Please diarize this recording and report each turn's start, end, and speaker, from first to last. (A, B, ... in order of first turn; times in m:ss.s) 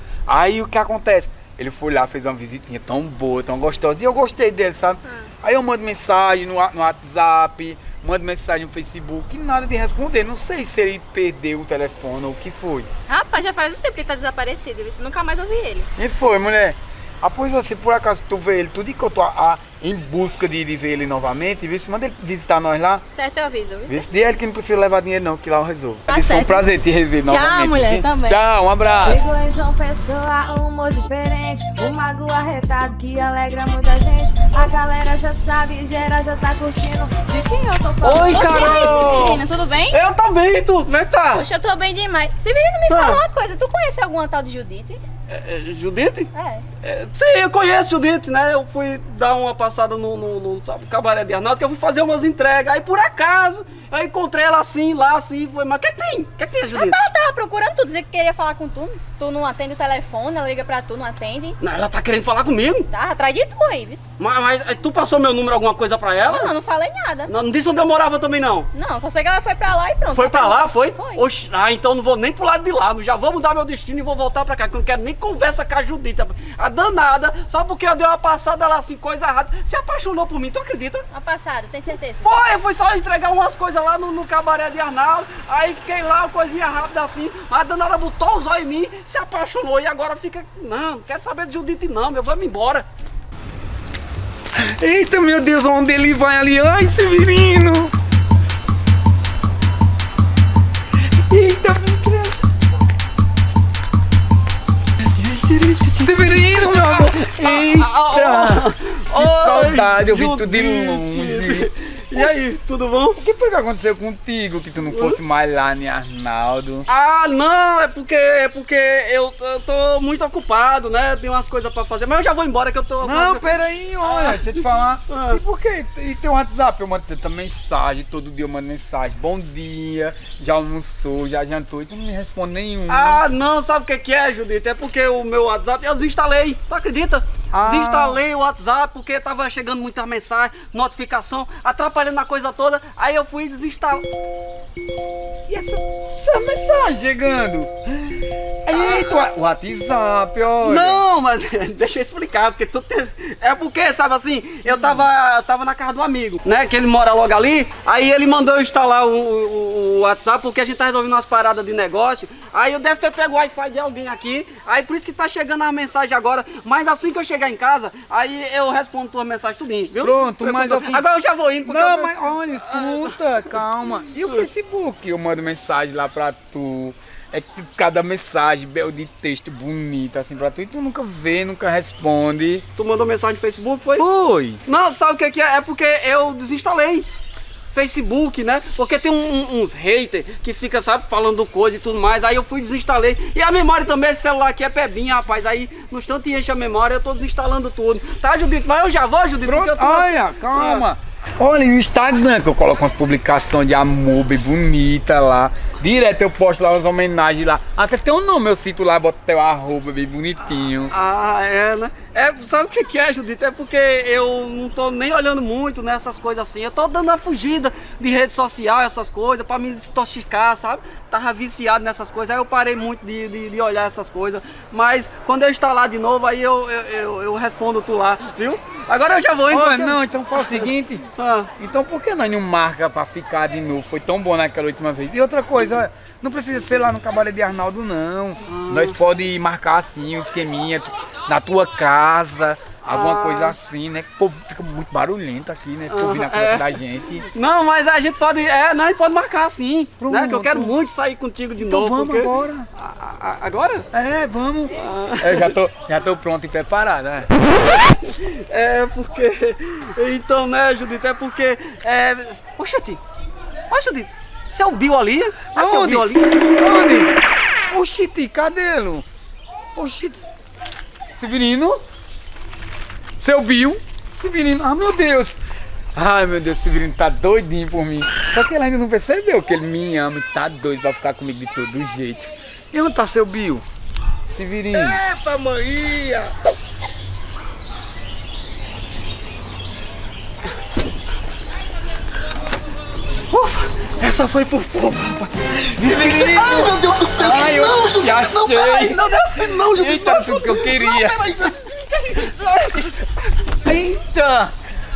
0:00.3-0:12.9 A
0:13.1-0:15.9 B
0:16.0-0:23.0 A
0:23.1-0:24.1 B
0:23.8-0:29.2 A
0:26.1-0:26.7 B
0:27.2-0:28.4 B
0:28.9-0:38.8 C
0:38.0-0:41.5 D
0:38.3-0:40.0 B
0:41.3-0:45.0 B
0:42.9-0:43.2 D
0:45.3-0:46.3 D
0:46.3-0:46.6 B
0:46.8-0:57.0 D
0:56.7-1:01.6 B
1:01.6-1:02.9 D
1:02.9-1:04.1 B
1:04.2-1:06.5 D
1:06.2-1:07.3 B
1:07.2-1:08.7 D
1:08.7-1:11.2 B
1:10.1-1:21.0 D
1:21.1-1:22.3 B
1:22.2-1:32.9 D
1:34.6-1:37.9 A
1:41.3-1:42.4 D
1:45.1-1:53.2 D
1:46.0-1:48.6 A
1:49.1-1:52.4 A
1:53.2-1:56.9 A
1:54.9-1:55.2 D
1:56.8-2:03.5 D
2:03.0-2:13.2 A
2:04.0-2:05.4 D
2:12.9-2:24.0 D
2:17.5-2:18.2 A
2:25.5-2:31.0 A
2:28.7-2:29.2 D
2:30.6-2:53.2 D
2:34.7-2:35.0 A
2:50.0-2:51.0 A
2:51.6-3:02.6 A
3:02.8-3:04.0 D
3:04.0-3:04.6 A
3:04.6-3:07.1 D
3:07.7-3:20.8 D
3:19.4-3:30.9 A
3:30.9-3:51.5 D
3:49.5-4:07.3 A
3:58.4-3:59.0 D
4:02.8-4:03.6 D
4:05.9-4:06.7 D
4:07.3-4:13.9 D
4:10.0-4:10.8 A
4:11.6-4:12.7 A
4:13.9-4:17.3 A
4:14.8-4:15.5 D
4:18.0-4:23.0 D
4:23.7-4:26.4 D
4:25.5-4:27.1 A
4:27.7-4:29.0 A
4:29.7-4:30.2 A
4:31.2-4:31.8 A
4:33.2-4:35.4 A
4:35.9-4:43.6 A
4:44.3-4:45.0 A
4:44.7-4:46.3 E
4:53.3-5:03.1 D
4:55.8-4:59.1 A
4:56.1-4:58.2 E
4:59.7-5:01.3 A
5:01.0-5:01.3 E
5:03.6-5:04.5 A